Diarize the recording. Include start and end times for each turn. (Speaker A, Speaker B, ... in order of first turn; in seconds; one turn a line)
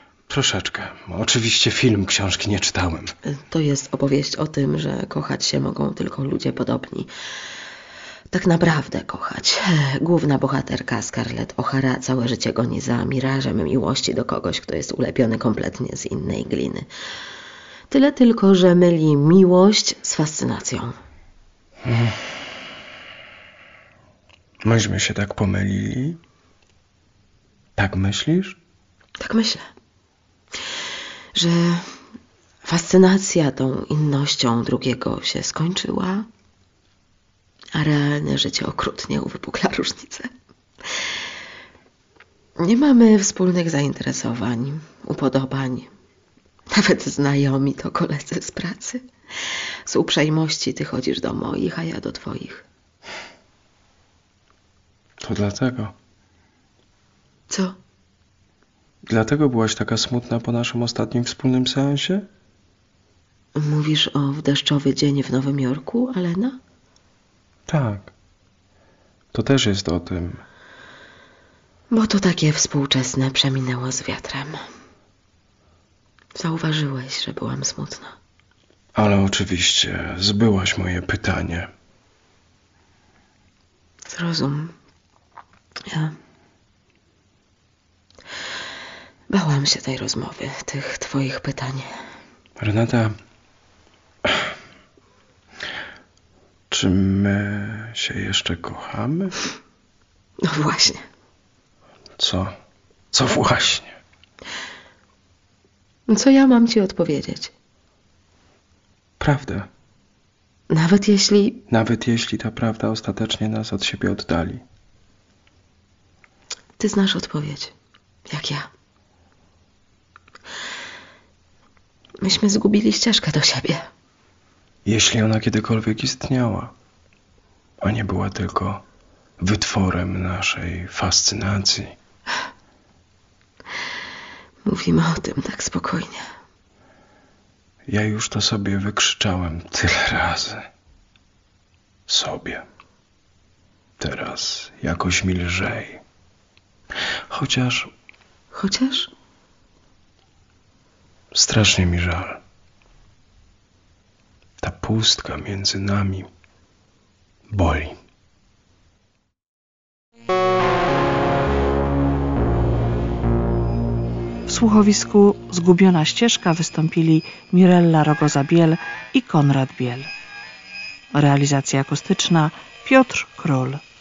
Speaker A: 0.3-3.1
Speaker B: 3.2-7.1
Speaker B: 8.3-16.9
Speaker B: 17.9-21.0
Speaker A: 21.8-22.2
Speaker A: 24.6-26.2
Speaker A: 27.8-28.6
Speaker B: 29.2-29.7
Speaker B: 31.4-31.9
Speaker B: 32.6-36.3
Speaker B: 37.8-40.3
Speaker B: 40.9-41.1
Speaker B: 42.6-45.9
Speaker B: 46.7-52.6
Speaker A: 55.2-55.9
Speaker B: 57.5-57.8
Speaker A: 59.1-62.3
Speaker B: 63.5-66.6
Speaker A: 67.7-68.1
Speaker A: 69.3-70.4
Speaker B: 71.9-74.6
Speaker B: 76.3-78.2
Speaker A: 79.0-81.7
Speaker B: 84.1-84.8
Speaker B: 85.9-86.2
Speaker B: 89.3-91.9
Speaker A: 92.6-93.2
Speaker A: 96.7-99.4
Speaker B: 100.4-101.0
Speaker A: 102.2-102.5
Speaker A: 103.1-104.0
Speaker B: 106.1-107.5
Speaker A: 109.2-109.7
Speaker B: 110.7-111.6
Speaker A: 111.7-114.6
Speaker B: 116.8-117.7
Speaker B: 118.3-118.7
Speaker B: 122.2-123.9
Speaker A: 124.8-126.7
Speaker A: 127.8-128.8
Speaker A: 129.4-131.9
Speaker B: 134.7-136.3
Speaker A: 137.9-140.7
Speaker A: 142.1-142.7
Speaker A: 144.0-146.0
Speaker A: 147.3-147.9
Speaker B: 148.5-149.1
Speaker A: 151.3-152.4
Speaker A: 154.6-156.3
Speaker A: 157.5-158.0
Speaker C: 164.5-170.1
Speaker C: 171.1-173.8